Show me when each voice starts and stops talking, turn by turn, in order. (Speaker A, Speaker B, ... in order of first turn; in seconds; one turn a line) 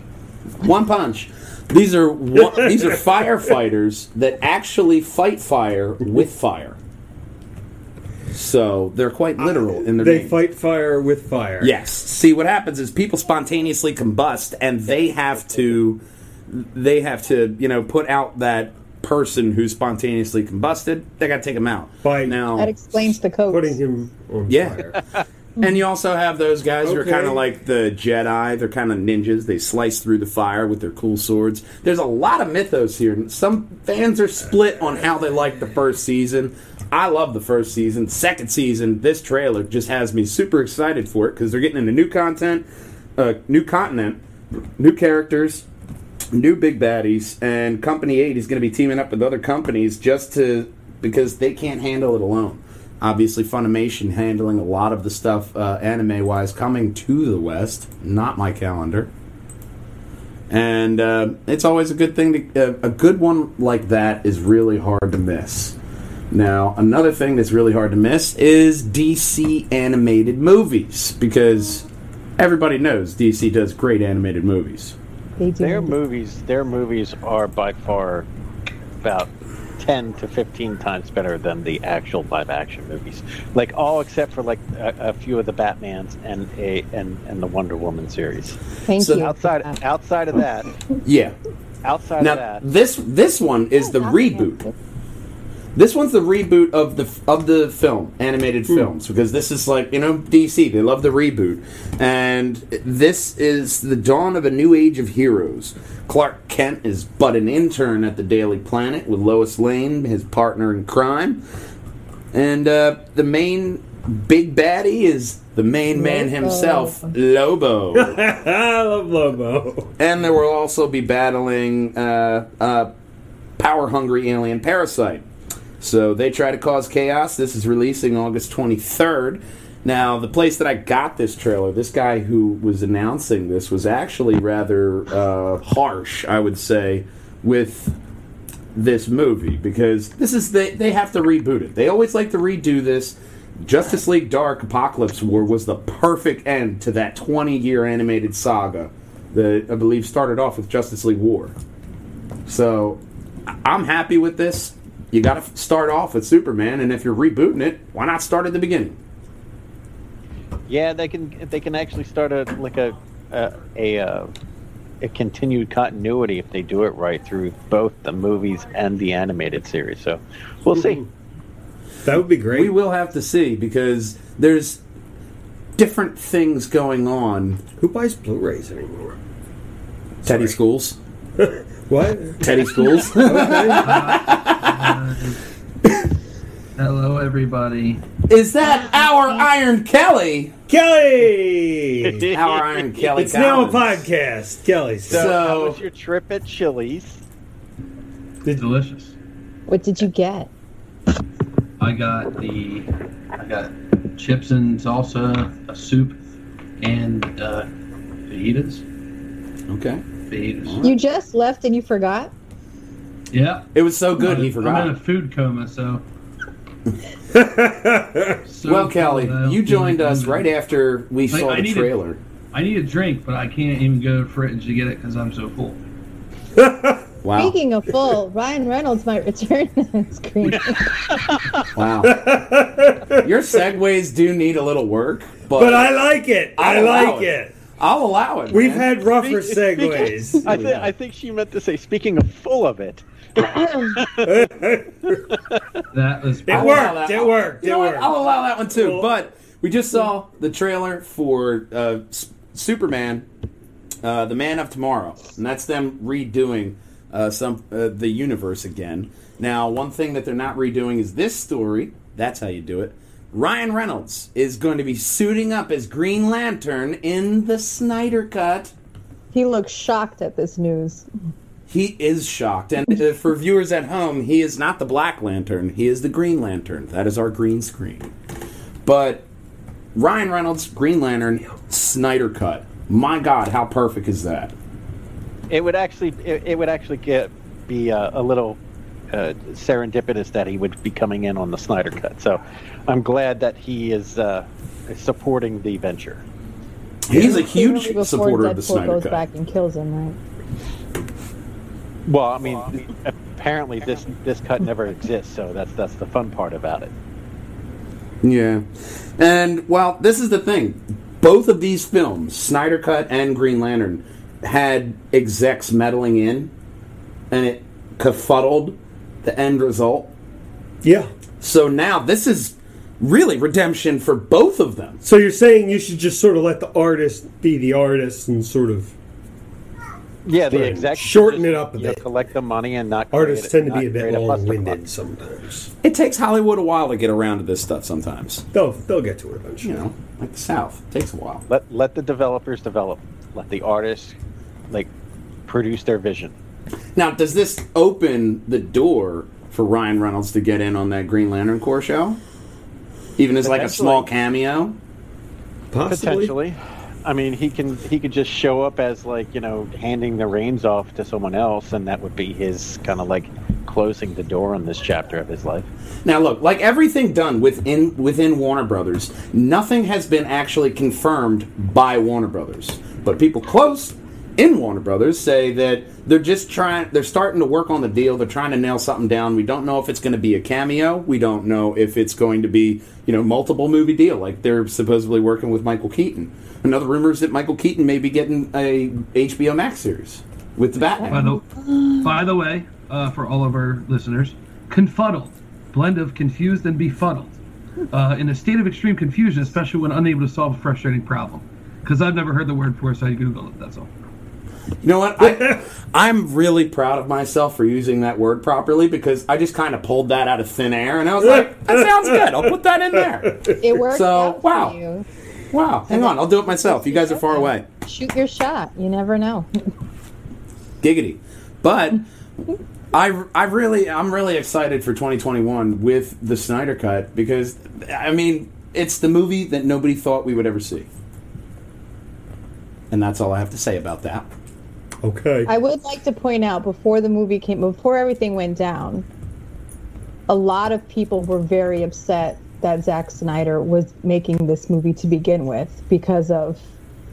Speaker A: 0.6-6.8
Speaker B: 2.5-2.9
Speaker A: 8.3-10.3
Speaker B: 9.4-11.8
Speaker A: 11.6-23.1
Speaker C: 14.9-15.8
Speaker B: 22.0-22.5
Speaker D: 22.5-23.8
Speaker B: 23.5-25.0
Speaker A: 24.5-25.0
Speaker A: 25.6-42.6
Speaker B: 26.8-27.4
Speaker A: 43.1-44.2
Speaker A: 44.8-45.6
Speaker A: 46.3-59.1
Speaker A: 60.5-65.8
Speaker A: 66.3-71.9
Speaker A: 72.4-75.0
Speaker D: 75.4-76.0
Speaker C: 75.6-78.2
Speaker C: 79.0-90.7
Speaker D: 88.9-89.8
Speaker A: 89.0-89.3
Speaker A: 91.0-91.3
Speaker C: 91.8-92.6
Speaker A: 92.2-94.6
Speaker D: 93.9-94.7
Speaker A: 95.7-111.4
Speaker A: 112.3-118.2
Speaker D: 115.9-117.1
Speaker B: 117.9-119.9
Speaker A: 120.0-122.9
Speaker A: 123.6-125.2
Speaker A: 125.8-137.9
Speaker A: 138.7-151.5
Speaker A: 152.5-153.0
Speaker A: 153.6-159.0
Speaker C: 160.7-164.3
Speaker C: 165.0-171.0
Speaker B: 170.7-171.1
Speaker B: 172.0-172.7
Speaker A: 172.5-174.8
Speaker A: 175.8-177.6
Speaker B: 177.8-179.2
Speaker B: 180.2-180.6
Speaker A: 180.2-181.0
Speaker B: 181.4-184.1
Speaker A: 182.4-185.0
Speaker E: 183.5-185.4
Speaker E: 186.8-188.0
Speaker A: 188.3-190.5
Speaker B: 190.7-192.3
Speaker C: 192.0-193.2
Speaker A: 192.3-194.0
Speaker B: 193.1-195.4
Speaker C: 195.1-197.2
Speaker A: 195.1-195.8
Speaker E: 198.6-199.1
Speaker D: 199.7-200.5
Speaker E: 201.8-206.2
Speaker E: 206.8-207.7
Speaker E: 208.3-208.8
Speaker A: 209.7-210.0
Speaker E: 210.3-210.8
Speaker A: 210.6-210.9
Speaker D: 210.8-212.3
Speaker E: 213.3-216.0
Speaker A: 213.7-215.0
Speaker B: 217.3-218.4
Speaker E: 218.5-220.5
Speaker A: 218.6-222.2
Speaker E: 221.3-222.0
Speaker E: 222.5-225.8
Speaker B: 226.6-227.1
Speaker A: 227.2-227.6
Speaker D: 227.3-231.0
Speaker C: 231.1-231.5
Speaker A: 231.7-232.2
Speaker B: 232.0-233.3
Speaker A: 233.2-235.9
Speaker B: 235.5-237.5
Speaker A: 236.6-238.9
Speaker B: 238.5-240.9
Speaker C: 239.1-243.1
Speaker D: 243.4-244.0
Speaker C: 243.9-244.4
Speaker B: 244.2-245.2
Speaker C: 245.1-245.8
Speaker E: 245.9-247.0
Speaker B: 246.5-248.1
Speaker A: 246.5-253.2
Speaker B: 248.7-249.1
Speaker A: 254.0-268.7
Speaker D: 269.3-271.1
Speaker A: 271.7-278.1
Speaker A: 278.9-279.2
Speaker A: 279.9-284.5
Speaker C: 285.5-288.6
Speaker C: 289.1-296.2
Speaker A: 297.0-299.2
Speaker B: 297.1-297.4
Speaker D: 297.2-300.2
Speaker C: 302.1-306.9
Speaker A: 308.2-316.5
Speaker A: 317.3-320.1
Speaker B: 320.8-321.1
Speaker A: 321.4-325.0
Speaker B: 325.0-328.9
Speaker C: 330.2-334.8
Speaker B: 330.5-332.0
Speaker B: 333.1-335.7
Speaker A: 335.8-338.4
Speaker B: 338.5-339.8
Speaker A: 339.6-341.4
Speaker C: 341.5-344.2
Speaker C: 345.5-346.3
Speaker A: 346.9-352.2
Speaker A: 353.2-354.8
Speaker C: 353.4-354.1
Speaker B: 355.7-356.3
Speaker C: 355.9-365.7
Speaker A: 366.0-391.3
Speaker D: 391.0-392.0
Speaker E: 391.1-391.4
Speaker E: 392.0-397.4
Speaker E: 397.9-403.9
Speaker A: 404.8-414.8
Speaker B: 405.2-405.6
Speaker B: 411.2-413.5
Speaker D: 413.6-415.1
Speaker A: 415.5-417.6
Speaker D: 415.9-419.5
Speaker A: 420.8-422.0
Speaker A: 422.9-430.9
Speaker A: 432.9-434.3
Speaker B: 435.0-435.5
Speaker D: 435.5-439.1
Speaker D: 440.3-446.6